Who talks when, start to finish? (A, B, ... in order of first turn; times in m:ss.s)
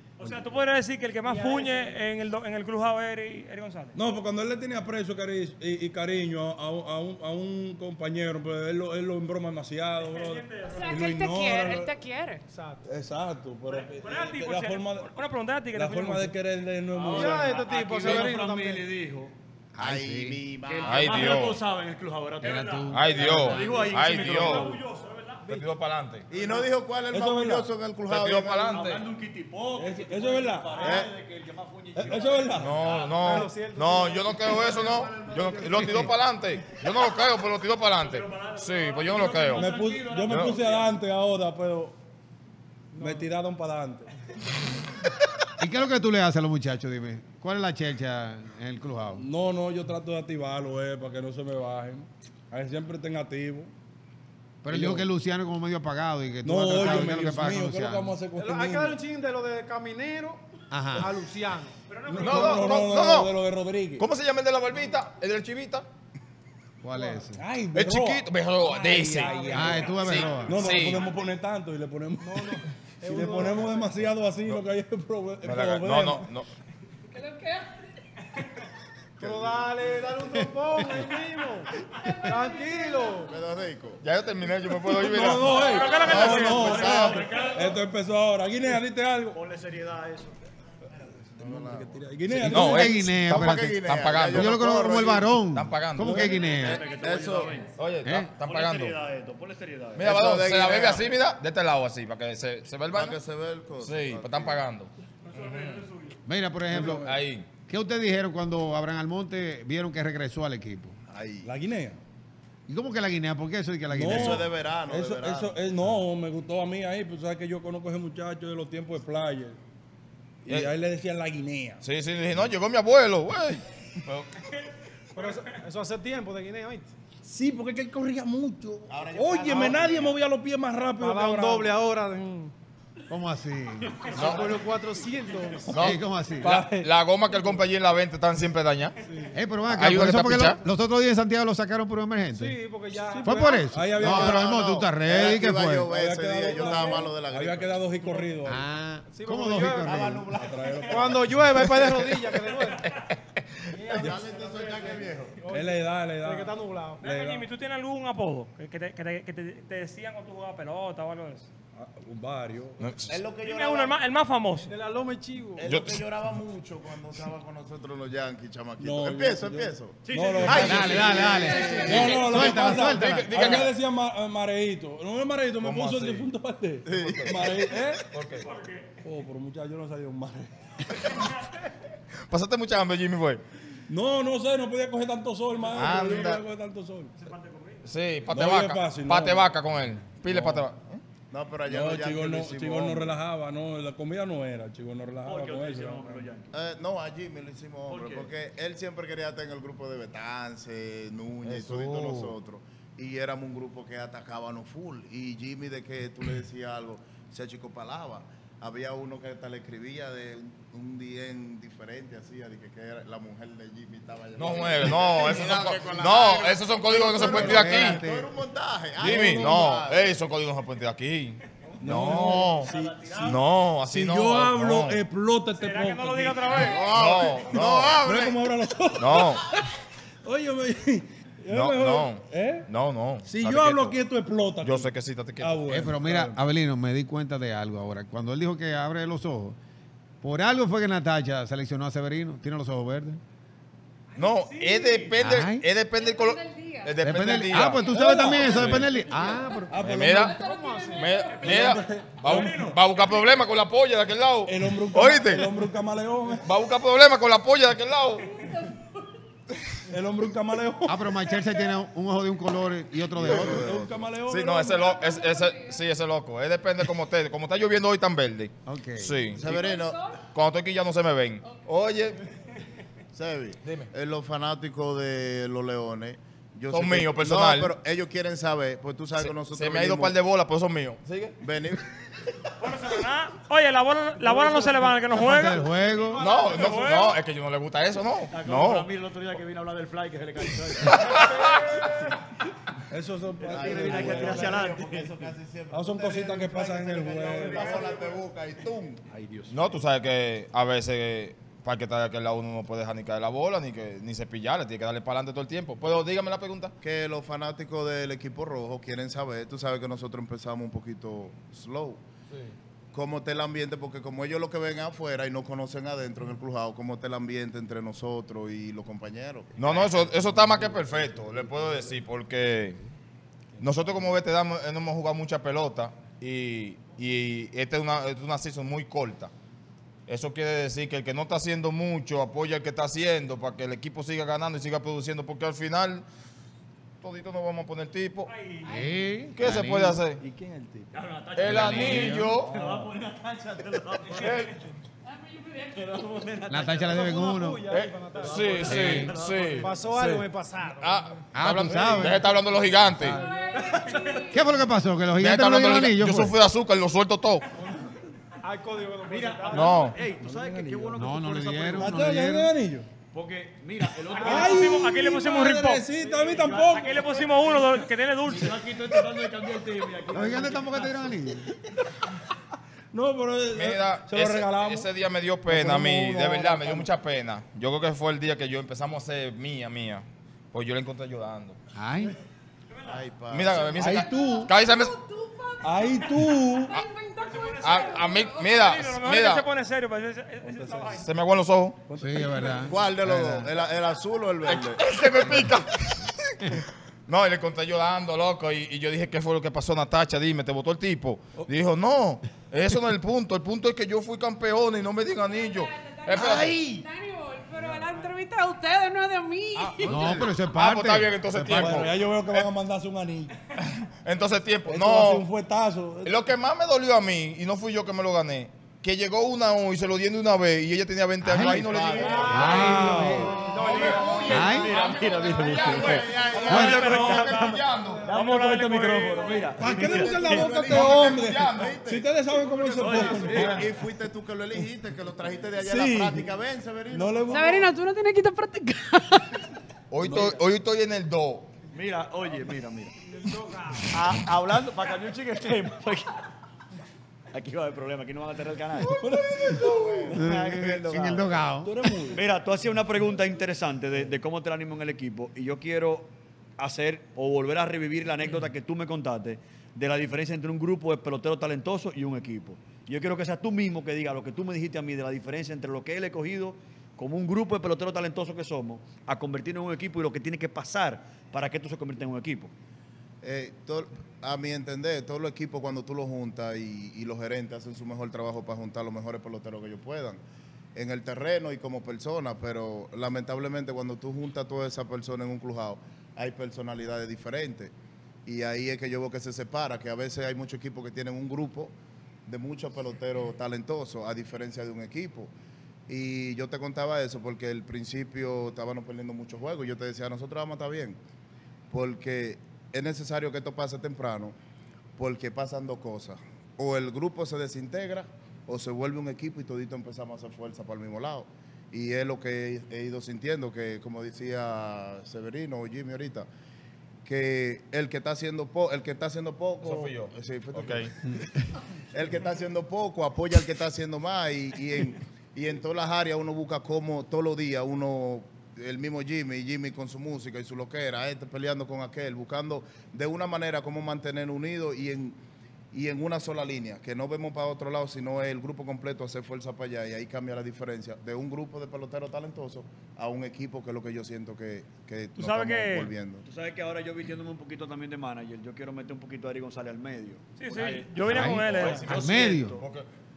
0:00.2-0:04.0 A
0:00.2-0:00.6 B
0:01.2-0:02.0 C
0:04.0-0:11.9 B
0:10.0-0:11.0 A
0:10.6-0:12.4 D
0:12.5-0:12.8 C
0:12.8-0:15.1 B
0:13.7-0:16.4 A
0:15.7-0:17.5 B
0:17.0-0:19.3 E
0:17.1-0:18.8 C
0:19.7-0:20.4 F
0:19.8-0:21.5 G
0:20.7-0:24.8 E
0:20.8-0:21.6 H
0:22.4-0:23.2 F
0:22.4-0:25.4 A
0:22.9-0:24.7 H
0:23.1-0:23.7 B
0:24.5-0:24.8 B
0:25.5-0:26.3 H
0:26.3-0:28.9 G
0:26.3-0:26.7 C
0:27.1-0:27.7 B
0:28.1-0:29.0 H
0:28.7-0:33.4 E
0:29.8-0:30.9 B
0:30.8-0:31.1 G
0:32.0-0:32.9 B
0:32.6-0:39.7 H
0:33.2-0:34.7 C
0:34.5-0:36.0 G
0:35.8-0:36.1 F
0:38.0-0:39.7 A
0:39.1-0:40.9 E
0:39.6-0:42.0 B
0:40.3-0:40.6 H
0:42.9-0:43.3 C
0:43.0-0:44.1 B
0:45.6-0:49.2 F
0:49.2-0:53.7 B
0:54.6-0:58.1 F
0:54.7-0:55.1 B
0:56.4-0:59.0 B
0:58.4-1:01.8 C
1:00.7-1:01.1 F
1:01.9-1:02.7 A
1:02.1-1:04.1 B
1:02.2-1:03.4 H
1:04.0-1:05.9 H
1:06.8-1:07.4 F
1:07.0-1:07.2 C
1:07.3-1:16.3 B
1:07.7-1:11.1 H
1:09.1-1:09.9 C
1:09.4-1:10.6 F
1:09.5-1:09.9 A
1:12.2-1:14.0 C
1:15.4-1:16.5 H
1:17.1-1:17.8 D
1:19.2-1:21.7 C
1:19.2-1:19.6 G
1:20.3-1:21.0 F
1:22.0-1:23.3 D
1:22.2-1:23.3 C
1:23.2-1:24.0 G
1:24.0-1:25.7 H
1:24.9-1:29.4 B
1:25.6-1:27.5 G
1:25.6-1:27.8 A
1:29.3-1:30.3 E
1:31.4-1:33.0 B
1:31.4-1:35.4 G
1:32.4-1:34.6 H
1:32.5-1:36.8 F
1:35.5-1:36.3 H
1:36.0-1:36.4 B
1:36.2-1:37.6 D
1:36.4-1:37.7 E
1:36.5-1:37.6 G
1:37.7-1:39.0 H
1:38.0-1:38.3 F
1:38.4-1:40.1 E
1:40.0-1:43.2 H
1:40.0-1:41.2 G
1:42.9-1:44.6 G
1:43.8-1:45.8 H
1:45.2-1:46.2 A
1:46.3-1:47.1 F
1:46.7-1:47.2 B
1:46.9-1:47.5 H
1:47.7-1:51.0 F
1:51.1-1:51.5 G
1:51.4-1:52.0 B
1:52.7-1:54.5 F
1:53.9-1:59.6 B
1:54.0-1:55.6 G
2:00.4-2:01.8 B
2:01.8-2:04.4 H
2:05.2-2:06.9 C
2:07.2-2:11.7 B
2:08.9-2:10.2 G
2:11.0-2:12.5 C
2:13.1-2:14.1 F
2:14.1-2:15.7 C
2:14.1-2:14.4 H
2:15.7-2:16.9 B
2:15.7-2:19.0 H
2:15.8-2:16.6 F
2:19.1-2:19.3 C
2:19.3-2:22.6 F
2:19.7-2:20.6 H
2:22.4-2:23.7 C
2:23.1-2:24.5 B
2:23.2-2:25.9 F
2:24.0-2:28.1 G
2:25.1-2:28.6 B
2:26.6-2:27.1 C
2:28.4-2:30.3 F
2:29.1-2:30.0 C
2:29.8-2:31.1 G
2:30.3-2:31.6 B
2:30.9-2:32.9 C
2:32.8-2:33.6 H
2:33.7-2:37.1 C
2:33.7-2:35.5 G
2:34.0-2:34.2 B
2:35.5-2:37.5 B
2:37.0-2:41.5 A
2:41.8-2:43.0 B
2:42.8-2:43.2 H
2:43.1-2:44.0 G
2:43.4-2:44.7 A
2:44.6-2:45.6 C
2:45.6-2:52.9 G
2:45.6-2:46.1 H
2:48.8-2:51.1 B
2:50.0-2:51.6 E
2:50.5-2:53.5 F
2:51.7-2:58.1 B
2:51.9-2:53.8 H
2:55.6-2:56.3 H
2:56.8-2:57.7 G
2:56.9-2:57.4 H
2:58.1-2:58.4 H
2:58.3-2:58.9 A
2:59.0-3:00.9 B
3:02.3-3:03.4 H
3:03.9-3:07.2 B
3:05.7-3:06.4 H
3:07.2-3:07.9 A
3:07.8-3:11.0 H
3:08.3-3:09.5 B
3:10.3-3:10.7 B
3:11.3-3:13.2 G
3:11.7-3:16.3 B
3:15.2-3:16.6 E
3:16.5-3:40.2 G
3:17.9-3:18.3 E
3:21.4-3:22.4 H
3:34.4-3:38.0 H
3:37.2-3:38.3 F
3:39.0-3:39.8 B
3:39.0-3:45.0 H
3:41.8-3:43.1 B
3:42.0-3:43.3 E
3:43.8-3:46.8 B
3:45.6-3:46.9 A
3:46.6-3:48.5 G
3:46.8-3:48.0 H
3:48.0-3:52.7 B
3:49.0-3:49.4 H
3:51.5-3:54.0 H
3:53.2-3:56.4 B
3:54.6-3:55.6 H
3:55.7-3:59.6 F
4:00.2-4:03.2 F
4:04.1-4:05.2 A
4:04.2-4:07.8 H
4:05.2-4:05.6 F
4:05.9-4:07.0 D
4:07.0-4:09.7 F
4:07.6-4:08.2 D
4:07.8-4:09.0 B
4:08.4-4:08.9 H
4:09.4-4:11.9 D
4:09.7-4:10.7 B
4:09.8-4:15.6 H
4:11.3-4:12.8 B
4:12.1-4:13.2 A
4:14.5-4:16.5 B
4:16.4-4:18.4 H
4:18.3-4:19.0 D
4:19.9-4:21.2 B
4:20.8-4:23.8 F
4:21.3-4:21.7 D
4:23.2-4:24.0 G
4:23.2-4:24.9 B
4:24.3-4:29.7 H
4:24.8-4:25.8 D
4:28.7-4:29.4 F
4:29.3-4:30.0 G
4:29.5-4:30.2 D
4:30.2-4:32.2 H
4:33.1-4:40.2 G
4:33.6-4:33.9 H
4:36.7-4:37.7 H
4:39.2-4:41.4 H
4:41.4-4:41.9 G
4:42.6-4:45.6 A
4:44.6-4:44.9 B
4:45.1-4:46.3 F
4:46.2-4:48.9 H
4:46.3-4:47.2 A
4:48.3-4:51.4 E
4:50.9-4:52.1 H
4:52.9-4:54.7 B
4:53.4-4:59.0 G
4:53.4-4:55.3 E
4:55.7-4:57.9 B
4:57.3-4:58.1 C
4:59.1-4:59.6 B
4:59.5-5:06.7 H
5:06.8-5:12.0 G
5:12.9-5:19.7 G
5:19.6-5:22.8 H
5:23.6-5:29.3 H
5:30.1-5:36.0 H
5:37.0-5:38.3 H
5:38.3-5:38.8 A
5:38.6-5:40.0 F
5:39.3-5:40.2 H
5:40.2-5:40.9 B
5:40.9-5:44.6 E
5:41.4-5:42.6 H
5:41.5-5:42.4 F
5:42.4-5:42.9 B
5:44.2-5:44.6 H
5:45.0-5:45.9 D
5:45.7-5:47.2 E
5:46.5-5:47.6 F
5:46.9-5:48.7 C
5:47.7-5:50.2 H
5:48.2-5:49.8 E
5:48.6-5:49.2 F
5:49.6-5:51.1 C
5:50.8-5:53.2 H
5:51.3-5:52.3 F
5:51.7-5:52.2 B
5:52.9-5:53.2 F
5:53.0-5:54.5 D
5:53.8-5:54.2 A
5:54.3-5:56.4 F
5:55.2-5:57.5 H
5:58.4-5:59.9 C
5:59.1-6:02.2 E
5:59.5-6:00.0 H
6:00.2-6:01.0 B
6:01.0-6:02.6 F
6:01.8-6:02.9 B
6:03.1-6:04.9 E
6:03.9-6:07.2 B
6:04.1-6:05.9 A
6:06.0-6:06.8 C
6:06.5-6:08.6 A
6:07.8-6:09.0 B
6:08.3-6:11.1 E
6:10.1-6:11.5 F
6:11.5-6:12.2 B
6:12.9-6:14.9 B
6:13.5-6:21.6 H
6:15.5-6:16.9 B
6:21.8-6:22.2 F
6:22.7-6:23.0 A
6:22.8-6:24.0 G
6:23.3-6:25.0 H
6:23.8-6:24.5 B
6:23.8-6:28.6 D
6:25.6-6:26.8 B
6:27.2-6:31.1 A
6:27.6-6:29.5 H
6:30.4-6:31.1 B
6:31.0-6:31.8 H
6:31.9-6:32.7 B
6:32.0-6:33.5 F
6:32.6-6:35.5 G
6:34.5-6:46.6 H
6:45.2-6:50.2 D
6:47.6-6:47.9 H
6:49.6-6:50.4 B
6:49.8-6:51.9 F
6:50.1-6:52.5 H
6:51.4-6:53.4 B
6:53.6-6:55.3 H
6:54.7-6:56.2 B
6:56.0-7:02.7 H
7:01.2-7:01.7 F
7:01.4-7:04.0 G
7:01.9-7:04.6 C
7:02.3-7:03.4 F
7:02.5-7:03.3 B
7:03.4-7:08.1 H
7:03.7-7:06.3 E
7:04.3-7:04.7 F
7:05.4-7:07.3 G
7:06.3-7:09.5 A
7:06.5-7:06.8 F
7:06.9-7:07.2 E
7:07.8-7:08.3 C
7:08.1-7:10.2 E
7:09.6-7:13.7 B
7:09.6-7:12.1 G
7:10.6-7:11.8 H
7:12.3-7:13.6 C
7:12.8-7:13.6 E
7:12.9-7:17.7 G
7:15.6-7:16.3 B
7:16.9-7:17.7 B
7:17.3-7:19.6 D
7:19.9-7:21.5 H
7:20.0-7:20.4 E
7:21.7-7:23.0 E
7:23.8-7:26.2 E
7:27.3-7:29.0 E
7:28.8-7:30.2 B
7:29.5-7:30.2 G
7:30.0-7:31.4 E
7:30.1-7:32.0 F
7:31.6-7:32.2 B
7:32.1-7:52.5 E
7:53.2-8:00.2 G
8:00.8-8:07.7 G
8:08.3-8:11.7 G
8:12.3-8:15.3 G
8:15.9-8:21.0 G
8:21.7-8:24.4 G
8:25.0-8:36.3 G
8:37.0-8:41.1 G
8:39.6-8:40.9 H
8:41.9-8:55.2 G
8:55.7-9:06.2 G
9:05.2-9:05.9 A
9:06.2-9:12.7 E
9:10.4-9:12.0 A
9:11.1-9:12.6 F
9:12.6-9:12.9 H